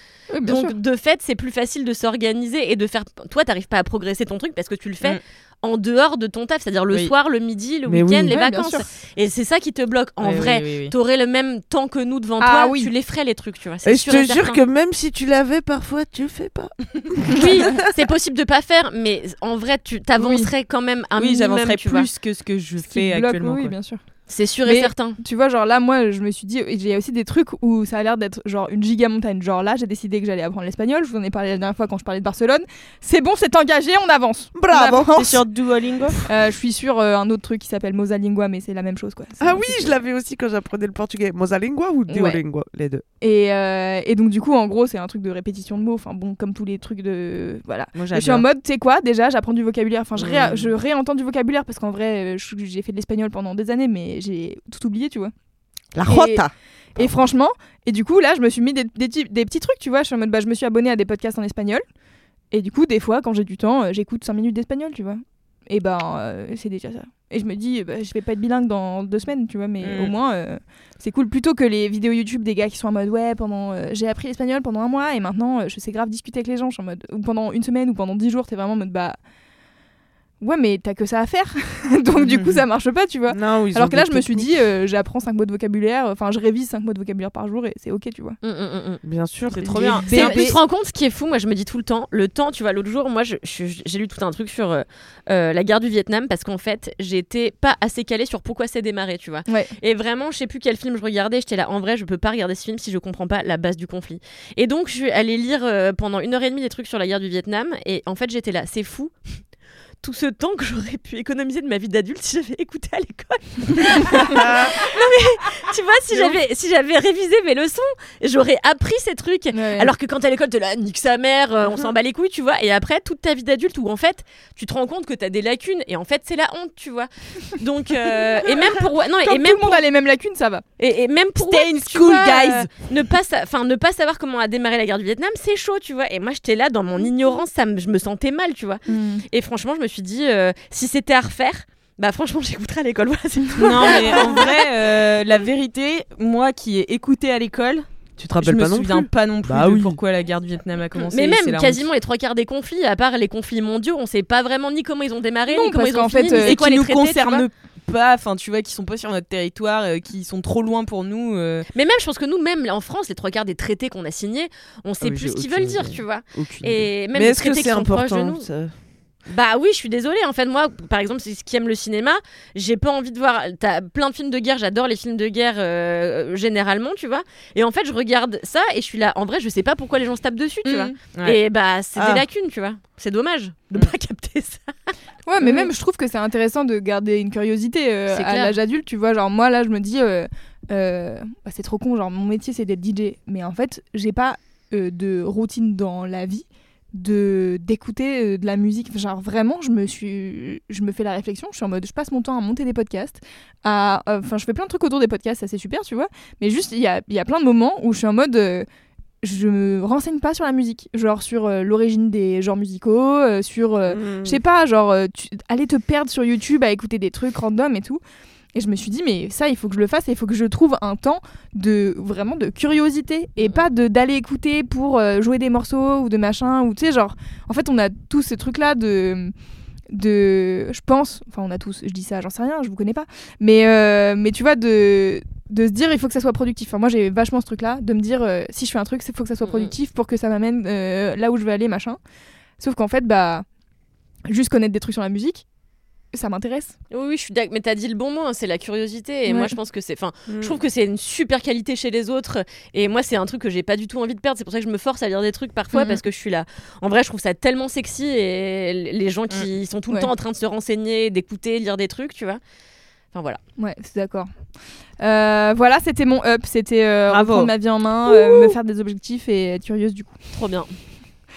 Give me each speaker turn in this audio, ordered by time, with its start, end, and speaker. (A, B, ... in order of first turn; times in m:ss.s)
0:00.3-0:00.8 A
0:00.4-0:14.6 B
0:07.9-0:08.8 C
0:08.3-0:08.8 A
0:10.2-0:10.9 D
0:12.4-0:12.9 A
0:13.8-0:17.8 C
0:17.3-0:22.1 B
0:20.2-0:20.5 A
0:21.2-0:23.8 D
0:22.9-0:24.0 A
0:24.3-0:25.2 B
0:24.6-0:35.4 A
0:34.5-0:36.2 C
0:34.7-0:36.2 D
0:36.2-0:40.0 A
0:39.4-0:43.0 C
0:42.1-0:42.4 A
0:43.2-0:55.3 A
0:48.0-0:48.4 D
0:50.2-0:50.7 C
0:56.0-0:57.1 C
0:56.1-0:56.4 A
0:57.0-1:01.8 A
1:02.5-1:19.2 A
1:09.8-1:10.1 D
1:20.4-1:28.4 A
1:22.2-1:22.6 D
1:23.3-1:24.6 C
1:28.4-1:29.0 B
1:29.0-1:30.5 C
1:29.5-1:49.1 B
1:29.6-1:30.5 D
1:50.0-2:09.8 B
1:54.3-1:54.8 C
1:59.5-1:59.9 A
2:09.2-2:10.6 A
2:10.8-2:24.6 B
2:11.4-2:12.7 D
2:18.9-2:19.2 A
2:23.6-2:27.9 D
2:28.2-2:30.0 C
2:28.4-2:31.8 D
2:31.0-2:37.5 B
2:35.5-2:36.6 A
2:36.4-2:41.6 D
2:41.7-2:48.5 B
2:45.0-2:48.7 C
2:49.3-3:04.7 B
3:00.6-3:01.0 A
3:01.1-3:01.4 D
3:02.0-3:02.2 C
3:05.3-3:28.7 A
3:08.1-3:08.6 B
3:29.2-3:38.0 A
3:33.9-3:34.4 C
3:38.6-3:49.3 A
3:49.9-4:02.0 A
3:59.4-3:59.7 B
4:02.6-4:03.4 A
4:04.3-4:05.4 A
4:06.1-4:06.8 A
4:06.9-4:22.4 B
4:09.3-4:09.5 A
4:10.3-4:10.6 C
4:15.7-4:16.0 A
4:23.1-4:23.4 B
4:23.6-4:24.3 A
4:25.0-4:30.2 A
4:27.1-4:27.5 D
4:30.3-4:30.7 B